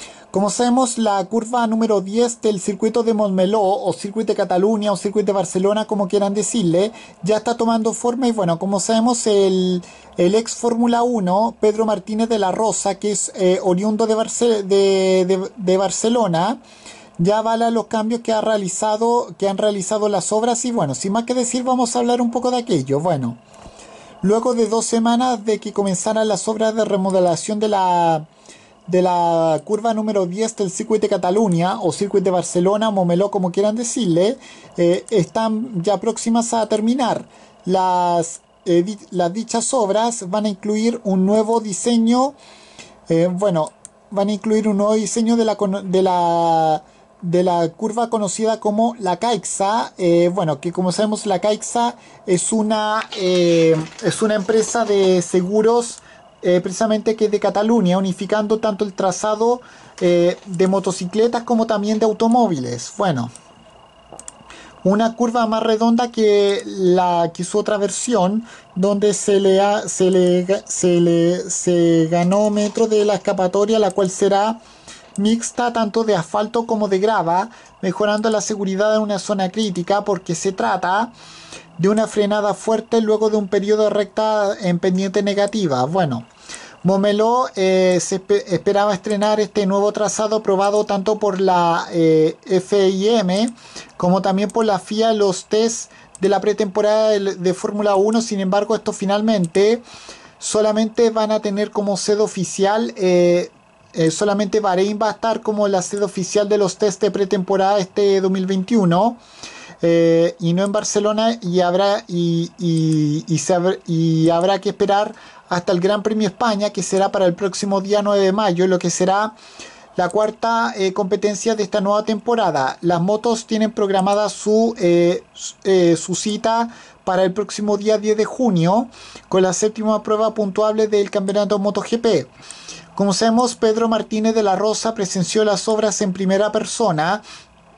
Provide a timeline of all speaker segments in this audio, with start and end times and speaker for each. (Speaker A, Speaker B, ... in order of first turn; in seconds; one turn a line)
Speaker A: 0.3-16.6
Speaker A: 17.2-23.4
Speaker A: 24.2-28.2
Speaker A: 28.9-42.4
Speaker A: 43.1-63.3
Speaker A: 64.8-74.6
Speaker A: 75.2-81.1
Speaker A: 81.8-86.3
Speaker A: 86.8-99.8
Speaker A: 100.4-109.2
Speaker A: 109.8-119.3
Speaker A: 120.0-132.3
Speaker A: 132.9-137.2